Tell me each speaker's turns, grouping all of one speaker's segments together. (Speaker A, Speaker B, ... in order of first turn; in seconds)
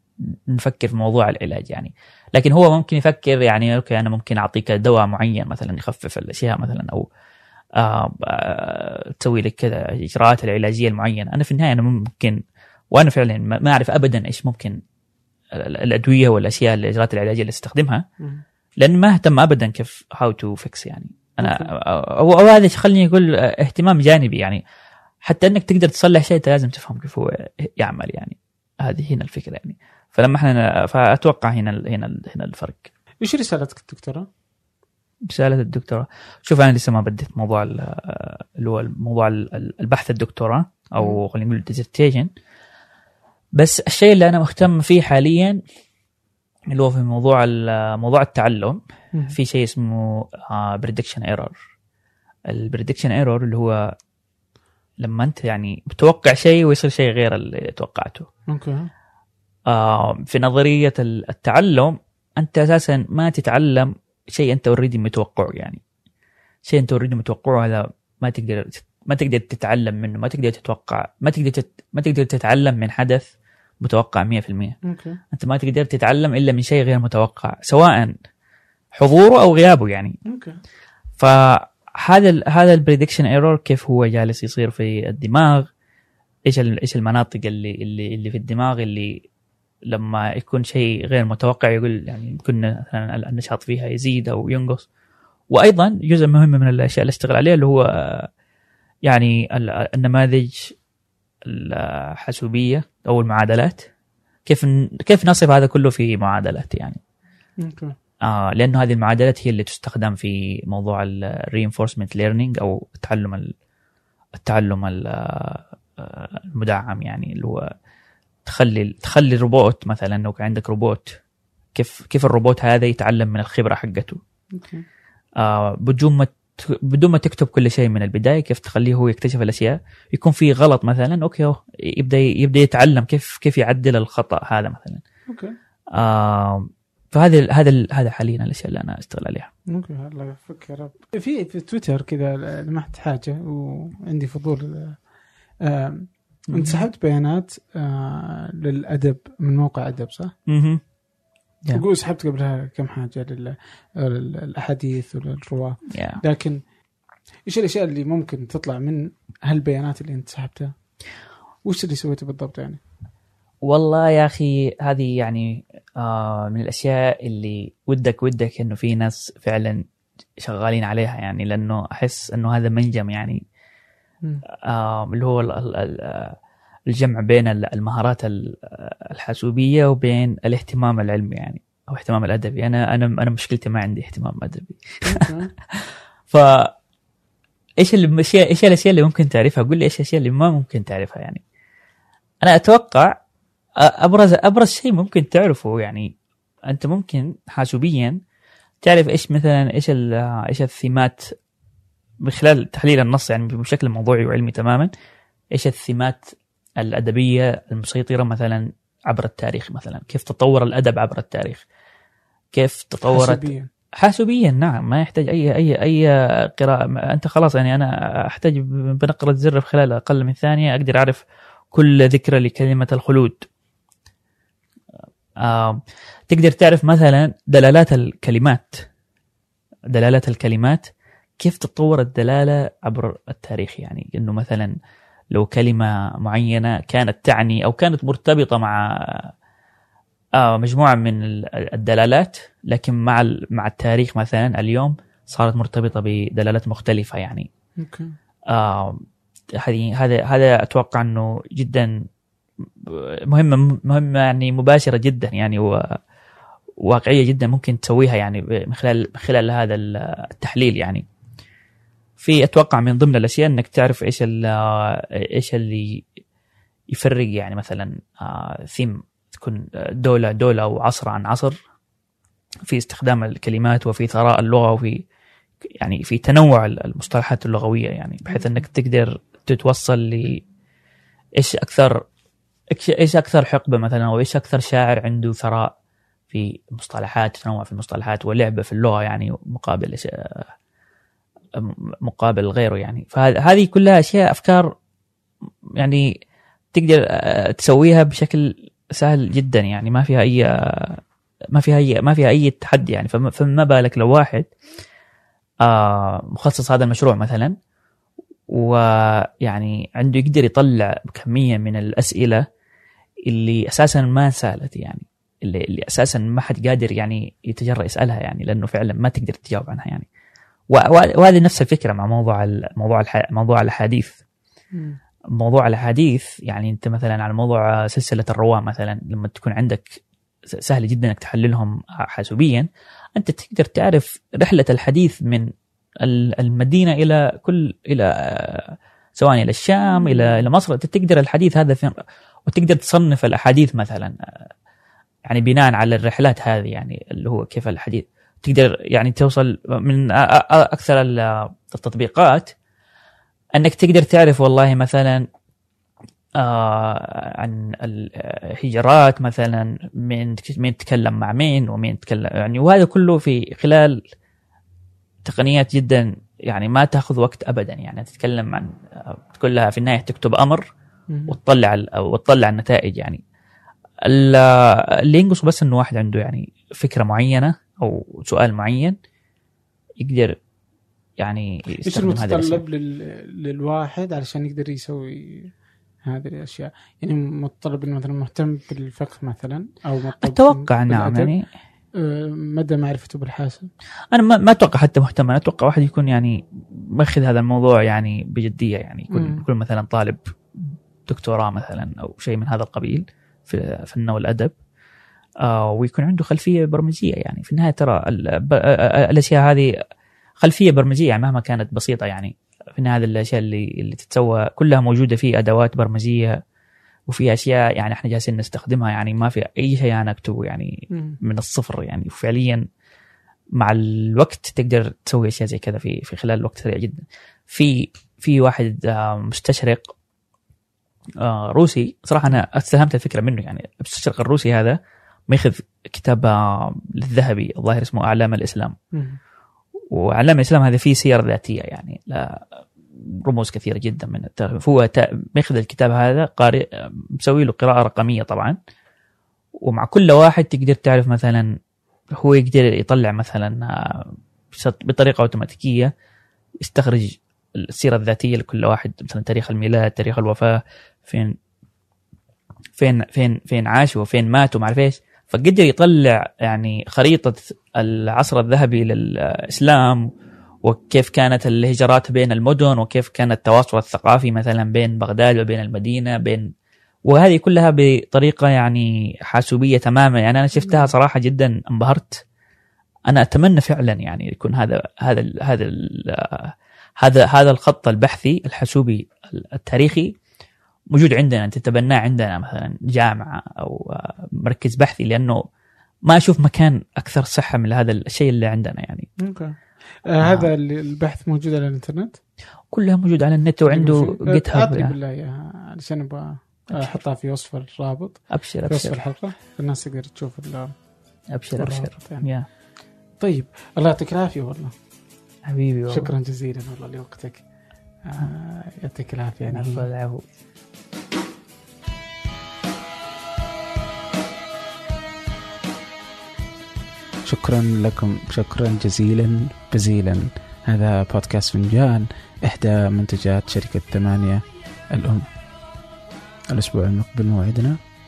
Speaker A: 0.2-7.1, 7.7-14.8, 15.5-18.0, 18.8-24.6, 25.2-32.9, 35.2-42.3, 43.6-45.6, 46.7-48.8, 49.3-51.5, 52.5-53.9, 55.0-58.3, 59.7-65.8, 66.6-73.3, 73.8-74.8, 75.3-78.1, 78.9-80.2, 81.2-85.7, 86.5-89.2, 89.9-94.9, 95.5-98.3, 99.0-100.7, 101.4-103.9, 104.5-107.0, 108.2-113.5, 114.3-117.7, 118.4-121.2, 121.7-124.2, 125.4-135.0, 135.9-139.5, 146.5-146.8, 150.5-150.8, 155.9-156.2, 163.6-169.8, 170.4-173.4, 174.5-176.4, 176.9-186.7, 187.8-191.4, 192.4-193.2, 193.8-196.1, 196.7-198.2, 198.8-201.3, 202.2-204.9, 205.5-211.6, 212.5-223.5, 225.4-228.8, 229.9-234.7, 235.3-239.3, 240.4-247.5, 248.5-249.0, 249.6-251.9, 252.8-256.0, 256.8-261.0, 262.2-266.0, 266.9-271.6, 272.7-275.0, 275.7-280.4, 281.4-282.0, 282.7-285.7, 286.3-290.5, 291.5-294.7, 295.8-296.1, 296.7-301.0, 301.5-304.5, 305.6-307.5, 308.5-312.4, 313.2-320.1, 320.7-324.2, 325.3-335.5, 336.0-341.9, 342.5-344.5, 345.2-352.5, 353.6-355.3, 356.4-364.0, 365.2-370.6, 371.3-373.2, 374.0-378.9, 380.0-380.4, 381.2-382.6, 390.2-391.4, 394.1-404.5, 405.4-409.7, 410.4-416.4, 417.1-422.6, 423.6-429.9, 431.2-434.8, 435.3-438.7, 439.9-448.6, 449.6-451.5, 452.1-455.9, 456.6-461.4, 462.8-470.1, 470.6-476.5, 477.1-482.2, 483.1-490.1, 490.9-495.4, 496.1-499.1, 500.2-500.5, 502.7-504.9, 508.3-508.9, 511.3-512.5, 515.4-516.1, 519.5-520.2
Speaker B: 21.4-21.7, 33.2-34.3, 58.5-58.9, 74.8-75.2, 80.2-80.5, 107.6-107.9, 124.5-124.8, 135.3-135.5, 139.7-145.0, 145.6-150.3, 151.7-156.6, 157.5-160.7, 161.6-162.8, 185.0-185.5, 213.1-213.7, 247.8-248.2, 324.7-325.0, 339.8-340.5, 371.1-371.4, 381.9-385.5, 386.0-391.3, 392.0-393.7, 399.1-399.4, 420.9-421.2, 438.9-439.2, 480.6-480.9, 499.2-502.2, 503.7-510.7, 511.6-512.3, 513.2-514.7, 515.9-517.5, 518.0-519.9, 527.2-535.2, 536.5-537.8